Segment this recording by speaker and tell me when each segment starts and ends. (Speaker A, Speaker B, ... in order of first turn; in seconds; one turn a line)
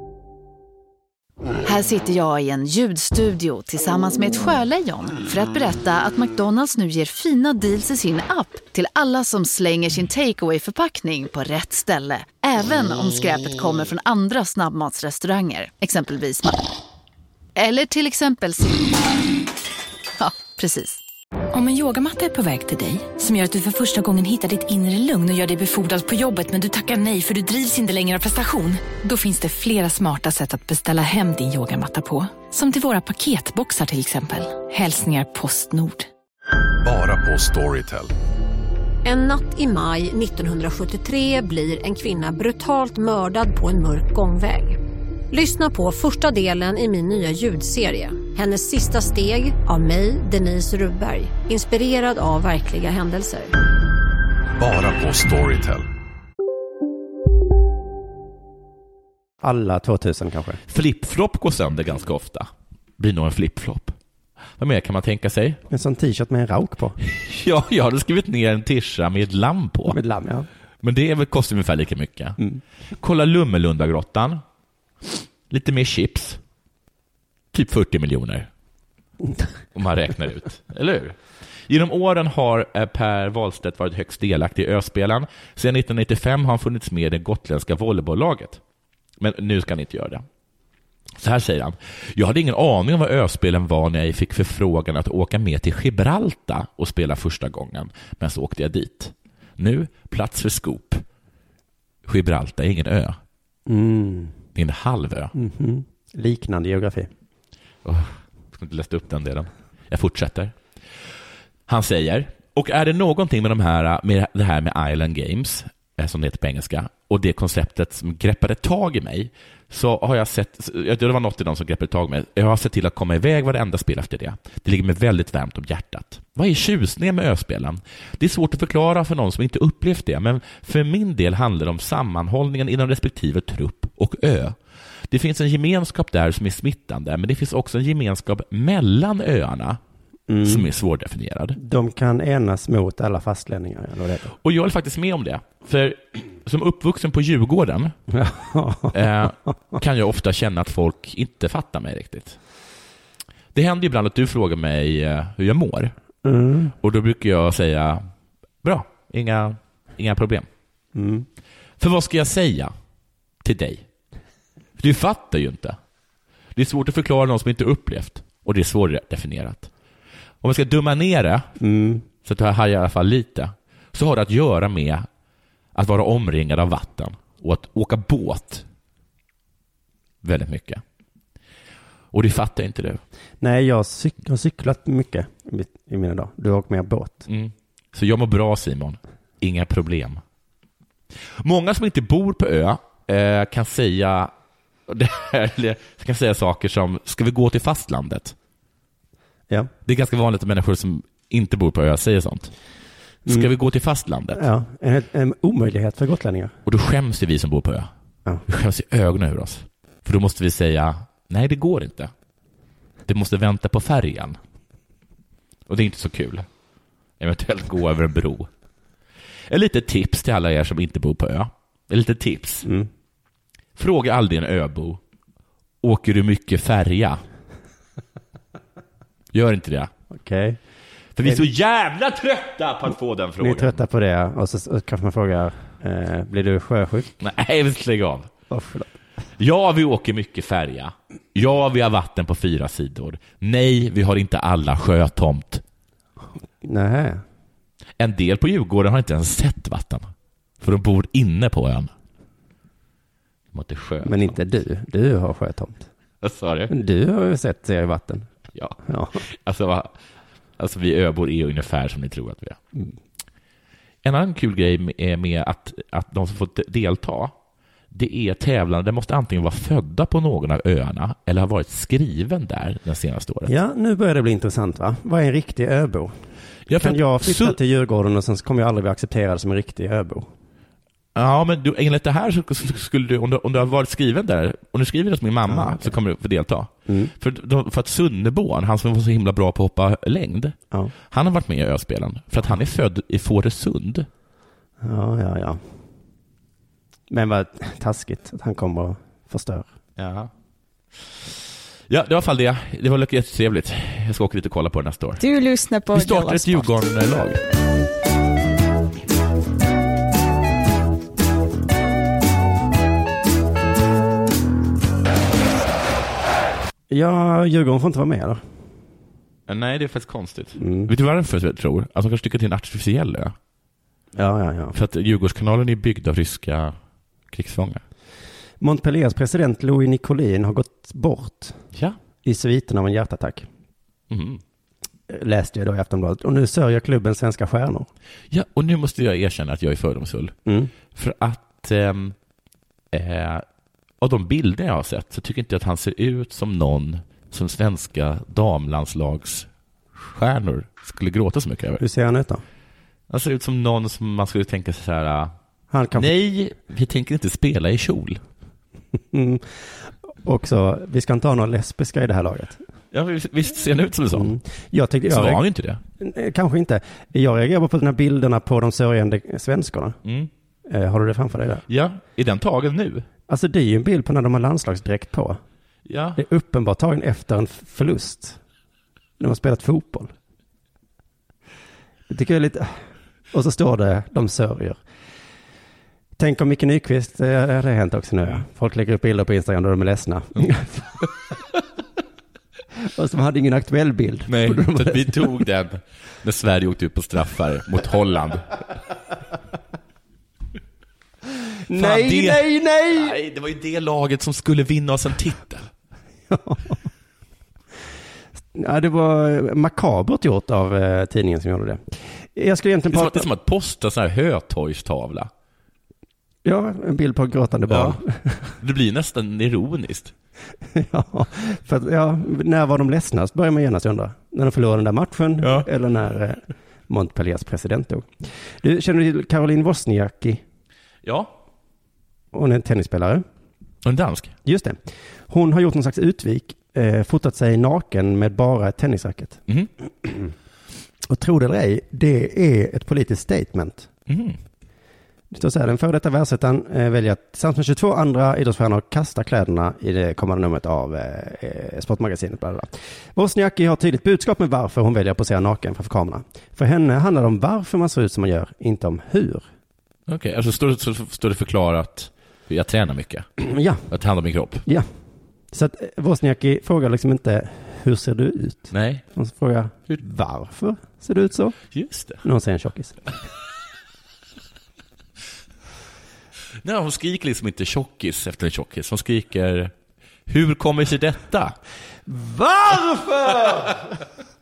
Speaker A: 1.6-16.6
Speaker A: 17.6-19.0
Speaker A: 20.2-21.0
Speaker B: 21.5-36.1
Speaker C: 36.8-38.1
Speaker D: 39.0-44.8
Speaker D: 45.3-53.5
Speaker C: 54.6-55.9
Speaker E: 59.4-60.6
Speaker F: 60.7-64.0
Speaker F: 64.6-65.6
Speaker E: 65.7-67.0
Speaker F: 67.0-70.0
Speaker E: 69.9-70.5
Speaker F: 70.8-72.4
Speaker F: 73.0-74.4
Speaker F: 75.1-76.4
Speaker F: 77.5-78.5
Speaker F: 79.7-81.2
Speaker F: 81.7-88.6
Speaker F: 89.2-90.2
Speaker F: 91.2-101.0
Speaker F: 102.0-103.2
Speaker E: 103.7-104.3
Speaker F: 104.5-105.3
Speaker E: 105.3-107.1
Speaker F: 107.8-110.5
Speaker F: 111.7-134.6
Speaker F: 135.1-139.8
Speaker E: 140.3-140.7
Speaker F: 140.4-141.6
Speaker E: 141.6-144.3
Speaker F: 144.4-147.9
Speaker E: 148.1-149.2
Speaker F: 148.9-152.4
Speaker F: 153.5-155.9
Speaker E: 156.2-156.7
Speaker F: 156.8-158.0
Speaker F: 158.6-160.5
Speaker E: 160.9-161.2
Speaker F: 161.8-162.7
Speaker F: 163.4-163.8
Speaker F: 164.8-165.8
Speaker F: 166.5-169.7
Speaker F: 170.4-171.5
Speaker E: 171.6-172.0
Speaker F: 172.2-175.1
Speaker F: 175.7-178.6
Speaker F: 180.2-180.8
Speaker F: 182.1-183.0
Speaker E: 183.4-187.2
Speaker F: 187.3-190.2
Speaker F: 191.2-194.3
Speaker F: 194.9-198.3
Speaker F: 199.8-202.5
Speaker F: 203.2-204.4
Speaker E: 204.3-206.5
Speaker F: 206.7-207.9
Speaker F: 208.4-212.1
Speaker F: 213.1-214.4
Speaker F: 215.7-216.5
Speaker F: 217.2-218.5
Speaker F: 219.5-222.7
Speaker F: 223.8-225.0
Speaker F: 225.8-227.2
Speaker F: 229.3-229.9
Speaker E: 230.1-230.6
Speaker F: 231.2-233.8
Speaker E: 233.4-237.1
Speaker F: 237.2-238.3
Speaker E: 238.5-238.9
Speaker F: 239.4-245.6
Speaker E: 246.6-247.2
Speaker F: 248.0-250.1
Speaker F: 250.6-251.9
Speaker F: 253.5-254.4
Speaker E: 254.0-255.9
Speaker F: 256.2-256.7
Speaker E: 256.7-258.3
Speaker F: 258.5-259.9
Speaker E: 258.8-259.2
Speaker F: 260.6-262.6
Speaker F: 264.0-267.3
Speaker F: 267.9-273.5
Speaker E: 273.4-276.1
Speaker F: 276.7-277.6
Speaker E: 276.7-280.3
Speaker F: 281.1-290.6
Speaker E: 285.5-285.9
Speaker F: 291.1-294.1
Speaker E: 294.8-295.6
Speaker E: 297.1-299.7
Speaker F: 300.0-300.3
Speaker F: 301.9-305.2
Speaker B: 305.3-306.4
Speaker F: 305.9-307.4
Speaker E: 316.9-318.4
Speaker F: 319.5-323.4
Speaker E: 320.6-320.9
Speaker E: 324.1-324.8
Speaker F: 324.7-326.8
Speaker F: 327.3-327.8
Speaker E: 328.6-331.6
Speaker E: 332.2-333.5
Speaker F: 334.1-334.4
Speaker E: 335.1-337.9
Speaker F: 338.3-340.3
Speaker E: 340.4-340.7
Speaker F: 340.9-342.1
Speaker F: 342.9-343.4
Speaker F: 344.0-351.8
Speaker E: 351.8-352.4
Speaker F: 353.1-355.3
Speaker E: 355.7-356.1
Speaker F: 355.9-358.2
Speaker E: 359.1-362.6
Speaker F: 362.9-364.3
Speaker E: 364.1-365.4
Speaker F: 365.1-365.8
Speaker E: 366.0-370.0
Speaker F: 370.0-370.3
Speaker E: 370.7-371.6
Speaker F: 371.7-373.1
Speaker E: 373.3-375.4
Speaker F: 375.9-376.2
Speaker E: 376.2-378.4
Speaker E: 379.2-380.1
Speaker E: 382.1-382.8
Speaker E: 383.3-384.8
Speaker E: 386.2-390.9
Speaker E: 392.9-395.3
Speaker F: 394.3-398.5
Speaker E: 401.7-403.1
Speaker F: 401.7-405.7
Speaker E: 406.3-406.8
Speaker E: 408.5-413.3
Speaker F: 412.9-415.3
Speaker E: 416.4-418.5
Speaker F: 417.7-418.0
Speaker F: 418.6-420.1
Speaker E: 420.7-430.4
Speaker F: 425.4-425.7
Speaker F: 431.0-431.3
Speaker E: 432.3-433.2
Speaker F: 433.8-434.3
Speaker E: 434.4-439.4
Speaker E: 440.0-440.3
Speaker E: 441.1-443.9
Speaker F: 444.1-444.4
Speaker E: 445.3-459.4
Speaker F: 460.1-463.3
Speaker E: 463.4-463.8
Speaker F: 463.9-464.6
Speaker E: 465.5-471.6
Speaker F: 468.7-469.0
Speaker F: 471.7-472.2
Speaker E: 472.2-473.0
Speaker F: 476.6-479.7
Speaker F: 480.3-481.6
Speaker E: 482.1-483.9